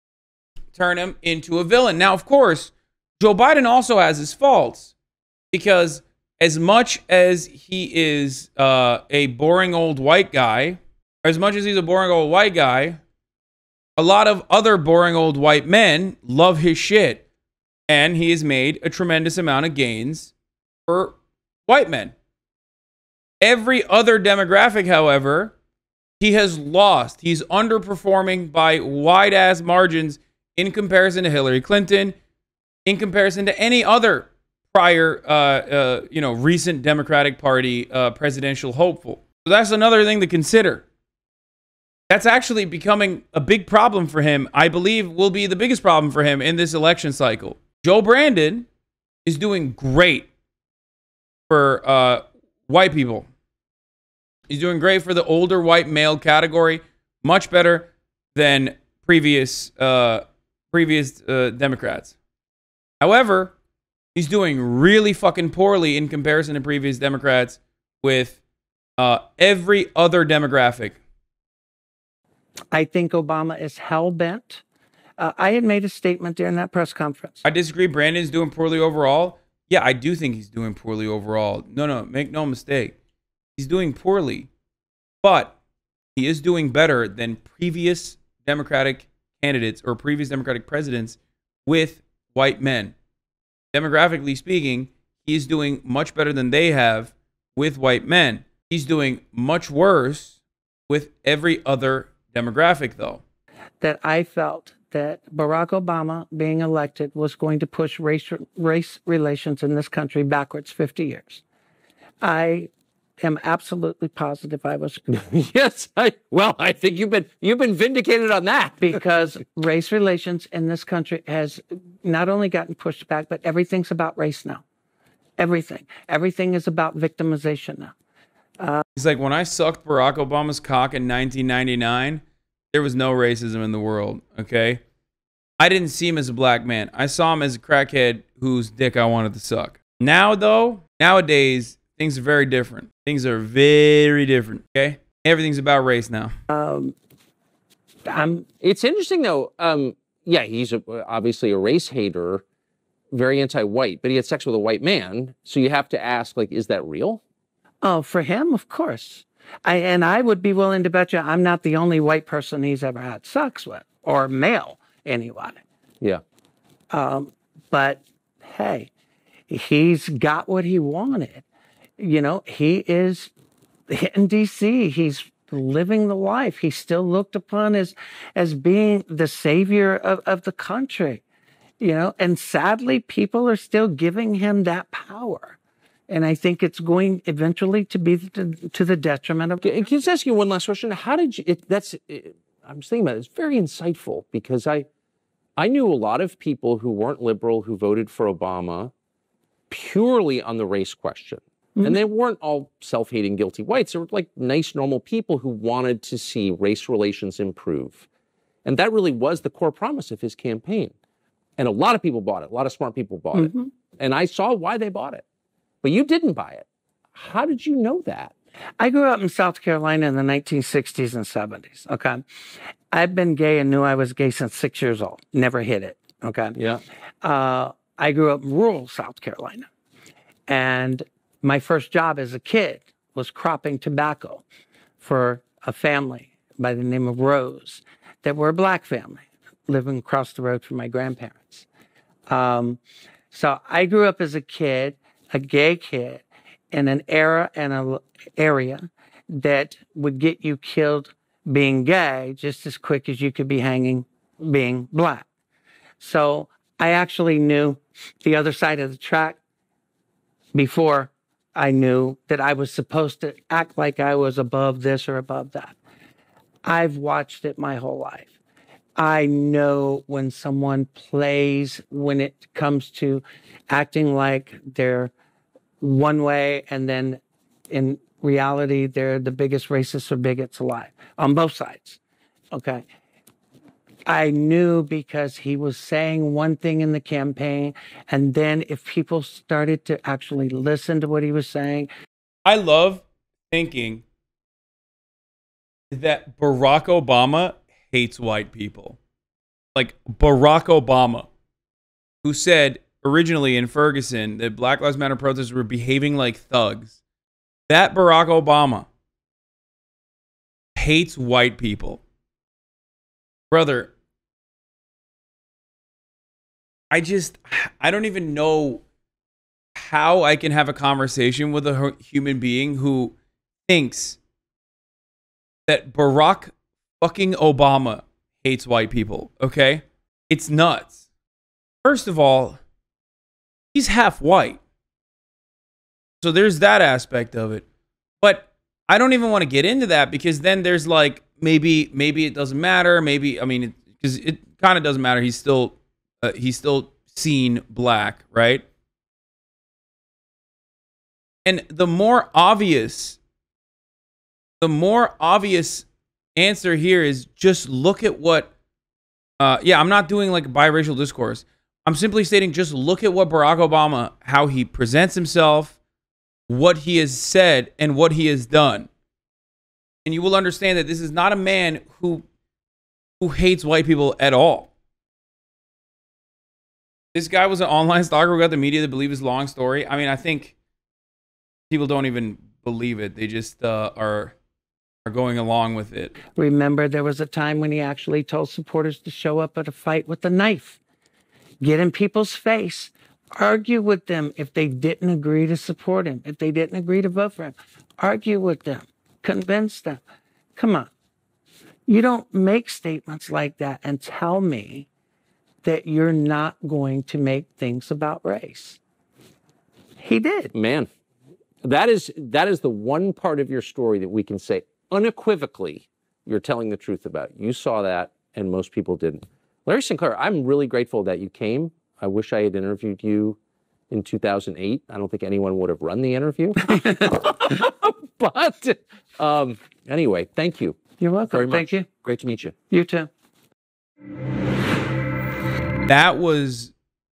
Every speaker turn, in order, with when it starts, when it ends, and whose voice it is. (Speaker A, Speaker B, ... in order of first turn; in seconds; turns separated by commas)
Speaker A: 0.7-4.9, Speaker A: 5.5-13.0, Speaker A: 14.0-17.2, Speaker A: 17.9-20.3, Speaker A: 20.9-21.2, Speaker A: 21.7-22.1, Speaker A: 23.4-25.5, Speaker A: 26.2-32.1, Speaker A: 32.9-40.8, Speaker A: 42.1-48.7, Speaker A: 49.3-50.3, Speaker A: 51.5-53.3, Speaker A: 54.5-62.1, Speaker A: 63.0-63.5, Speaker A: 64.2-68.4, Speaker A: 69.0-71.0, Speaker B: 72.7-74.6, Speaker B: 75.2-77.4, Speaker A: 77.4-83.0, Speaker A: 83.6-84.5, Speaker A: 85.2-85.5, Speaker A: 86.2-92.9, Speaker A: 93.7-100.4, Speaker A: 100.9-103.2, Speaker B: 103.8-111.4, Speaker B: 112.2-112.7, Speaker B: 113.2-115.1, Speaker C: 115.1-119.0, Speaker B: 118.8-124.6, Speaker B: 125.4-127.9, Speaker A: 129.0-134.8, Speaker A: 135.6-146.3, Speaker B: 146.5-146.9, Speaker B: 148.1-148.5, Speaker C: 148.6-152.4, Speaker C: 153.1-157.2, Speaker B: 157.8-165.6, Speaker B: 166.9-168.9, Speaker B: 169.5-171.4, Speaker B: 172.0-173.3, Speaker B: 173.9-181.2, Speaker B: 181.8-185.6, Speaker B: 186.1-189.8, Speaker C: 189.6-194.9, Speaker C: 195.6-198.9, Speaker C: 199.7-208.1, Speaker C: 208.7-210.9, Speaker C: 211.6-215.2, Speaker B: 213.3-213.7, Speaker C: 215.8-218.3, Speaker B: 218.8-222.2, Speaker B: 222.9-226.6, Speaker C: 226.6-226.8, Speaker B: 227.2-229.7, Speaker B: 230.5-234.4, Speaker B: 235.0-241.7, Speaker B: 242.3-242.8, Speaker B: 243.3-255.3, Speaker B: 256.0-259.4, Speaker B: 260.5-265.8, Speaker B: 266.6-268.3, Speaker B: 269.0-275.1, Speaker B: 275.8-282.0, Speaker B: 282.5-282.8, Speaker B: 284.1-291.9, Speaker A: 292.5-294.0, Speaker A: 295.9-299.0, Speaker A: 299.8-301.3, Speaker A: 302.2-307.0, Speaker A: 307.7-308.9, Speaker A: 310.8-312.0, Speaker A: 313.5-313.9, Speaker A: 316.9-318.8, Speaker A: 319.8-323.1, Speaker A: 323.7-324.2, Speaker A: 325.7-331.0, Speaker A: 331.8-332.6, Speaker A: 333.7-334.6, Speaker A: 336.2-337.6, Speaker A: 338.2-348.6, Speaker A: 351.4-353.2, Speaker A: 354.6-355.9, Speaker A: 356.4-358.5, Speaker A: 359.4-365.8, Speaker A: 366.5-368.9, Speaker A: 370.1-372.2, Speaker A: 373.2-374.7, Speaker A: 377.1-380.5, Speaker A: 381.7-384.3, Speaker A: 385.1-386.1, Speaker B: 386.4-390.8, Speaker B: 391.6-400.0, Speaker B: 400.6-400.9, Speaker B: 401.9-404.9, Speaker B: 405.6-408.8, Speaker B: 410.0-410.5, Speaker C: 410.5-410.9, Speaker C: 411.6-423.4, Speaker C: 423.9-430.8, Speaker B: 426.7-427.0, Speaker B: 431.0-431.9, Speaker C: 431.3-432.6, Speaker B: 432.7-433.1, Speaker A: 435.9-436.7